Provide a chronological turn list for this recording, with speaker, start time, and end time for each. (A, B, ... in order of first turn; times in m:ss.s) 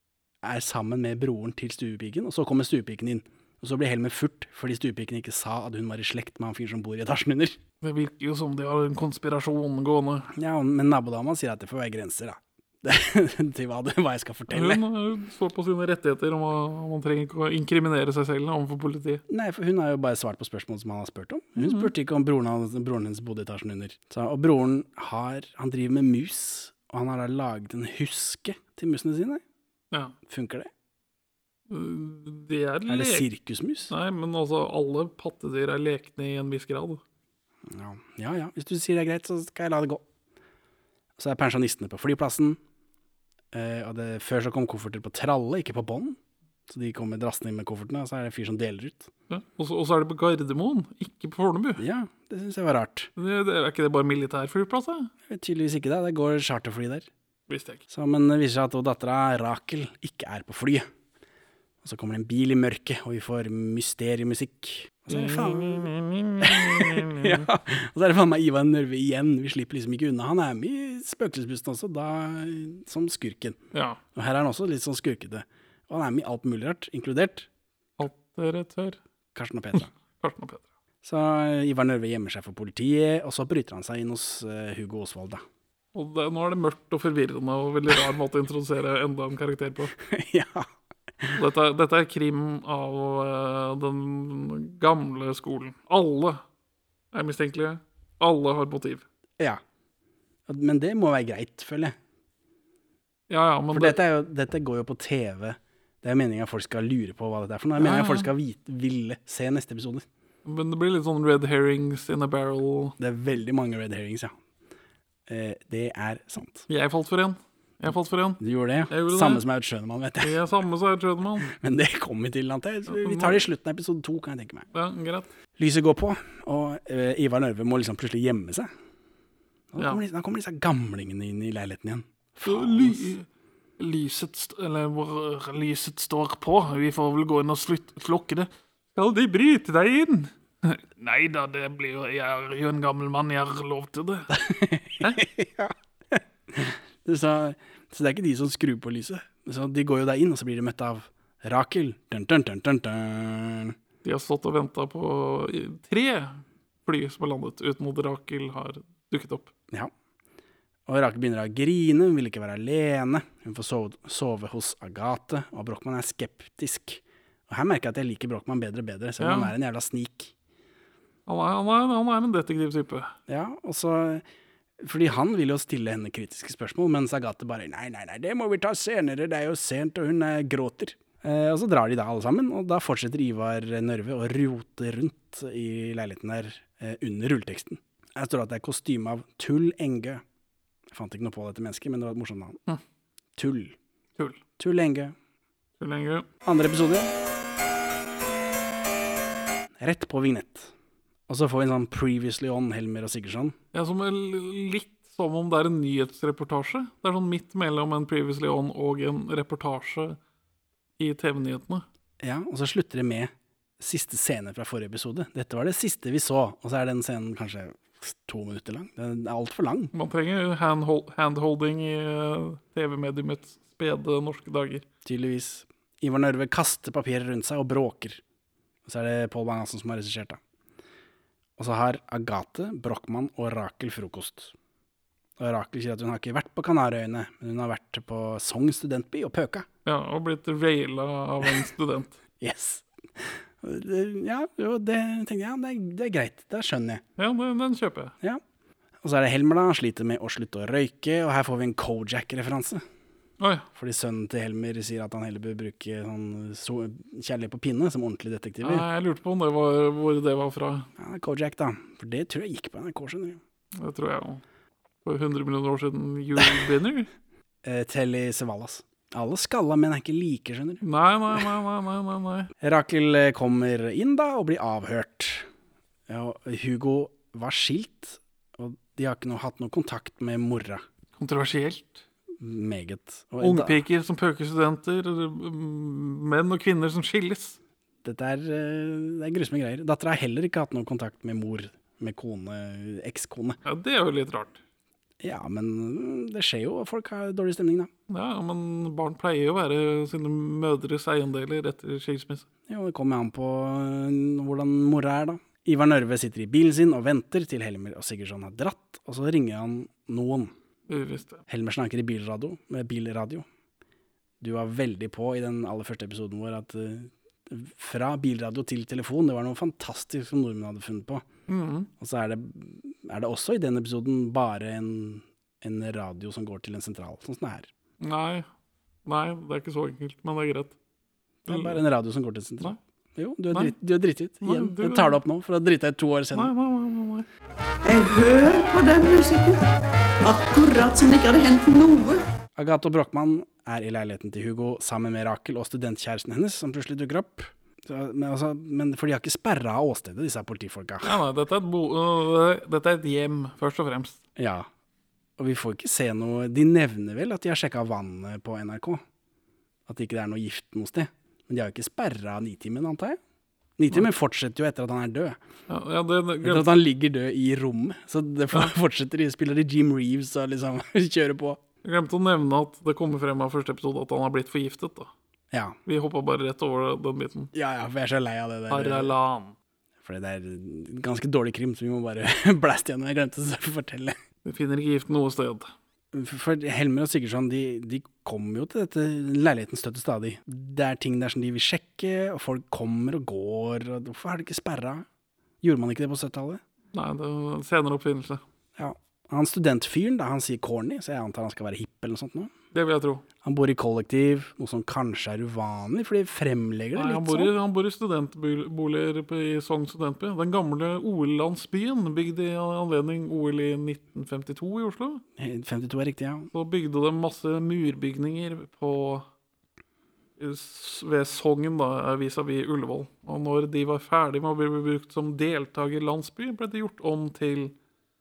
0:00.4-0:07.6 A
0:07.8-0:10.3 B
0:10.3-0:14.8 A
0:14.5-0:19.2 B
0:19.3-0:29.4 A
0:21.6-0:21.9 B
0:30.3-0:30.7 A
0:31.7-0:33.2 B
0:32.9-0:33.9 A
0:33.9-0:37.0 B
0:37.7-0:40.0 A
0:41.2-0:42.6 A
0:43.5-0:46.2 A
0:46.7-0:49.1 A
0:49.3-0:51.8 B
0:51.8-0:53.1 A
0:53.2-0:55.1 B
0:55.3-0:57.1 A
0:57.5-0:57.8 B
0:57.9-1:00.8 A
1:01.8-1:13.6 A
1:05.1-1:07.5 B
1:13.7-1:14.0 B
1:14.1-1:17.5 A
1:18.0-1:19.0 B
1:19.3-1:19.9 A
1:19.8-1:20.6 B
1:21.0-1:25.4 A
1:25.9-1:29.9 B
1:30.0-1:30.7 A
1:31.3-1:36.4 B
1:37.1-1:39.0 B
1:40.5-1:42.0 A
1:43.3-1:44.0 B
1:43.7-1:50.0 A
1:47.8-1:48.3 B
1:50.4-1:53.0 B
1:53.0-1:54.3 A
1:55.3-1:56.7 A
1:56.7-1:59.4 B
1:58.4-2:00.4 A
2:00.2-2:01.5 B
2:01.5-2:04.6 A
2:02.9-2:03.4 B
2:04.7-2:05.3 B
2:05.6-2:08.7 A
2:09.7-2:13.1 A
2:12.4-2:13.2 B
2:13.8-2:24.3 B
2:24.3-2:33.7 A
2:34.0-2:39.5 B
2:40.9-2:50.3 A
2:49.2-2:49.5 B
2:51.3-2:53.1 B
2:53.3-2:54.2 A
2:54.8-3:10.2 A
3:10.9-3:12.6 A
3:13.4-3:13.7 A
3:14.6-3:15.1 A
3:15.8-3:16.2 B
3:16.4-3:17.1 A
3:19.8-3:20.7 A
3:21.3-3:23.6 A
3:23.7-3:30.2 B
3:31.0-3:31.8 B
3:32.2-3:39.9 A
3:39.9-3:44.8 B
3:45.0-3:48.2 A
3:48.8-3:50.4 A
3:51.6-3:54.5 A
3:55.4-3:59.6 A
3:59.8-4:02.2 B
4:02.4-4:07.0 A
4:07.2-4:08.1 B
4:09.0-4:12.8 A
4:13.4-4:13.6 B
4:13.7-4:18.8 A
4:18.6-4:20.9 B
4:21.0-4:23.4 A
4:23.8-4:24.4 B
4:25.0-4:27.1 B
4:27.6-4:30.8 A
4:30.8-4:32.5 B
4:32.6-4:35.5 A
4:36.1-4:40.8 A
4:41.2-4:42.0 B
4:42.4-4:43.8 A
4:43.4-4:47.6 B
4:48.0-4:53.6 A
4:53.6-4:54.6 B
4:55.2-4:57.9 A
4:58.1-5:02.4 B
5:02.7-5:10.5 A
5:10.9-5:11.4 B
5:11.5-5:13.4 A
5:14.4-5:21.2 A
5:21.5-5:21.9 B
5:22.0-5:27.7 A
5:28.0-5:28.4 B
5:29.0-5:30.7 B
5:31.5-5:31.8 B
5:31.5-5:36.5 A
5:34.4-5:35.2 B
5:36.3-5:37.3 B
5:37.8-5:39.6 C
5:40.2-5:42.2 C
5:42.6-5:51.1 A
5:51.0-5:54.2 B
5:54.4-5:54.7 A
5:55.4-5:59.0 A
5:59.9-6:03.2 A
6:03.8-6:05.4 A
6:05.7-6:06.7 B
6:06.4-6:11.6 A
6:11.8-6:15.1 B
6:15.8-6:17.5 B
6:17.5-6:19.1 A
6:18.7-6:19.5 B
6:20.0-6:24.2 A
6:24.4-6:25.7 B
6:26.1-6:35.0 A
6:35.6-6:36.6 A
6:36.9-6:38.4 B
6:38.8-6:42.5 A
6:42.7-6:43.2 B
6:43.4-6:47.5 A
6:47.0-6:55.2 B
6:55.4-6:56.5 A
6:56.5-6:59.2 B
7:00.4-7:07.7 B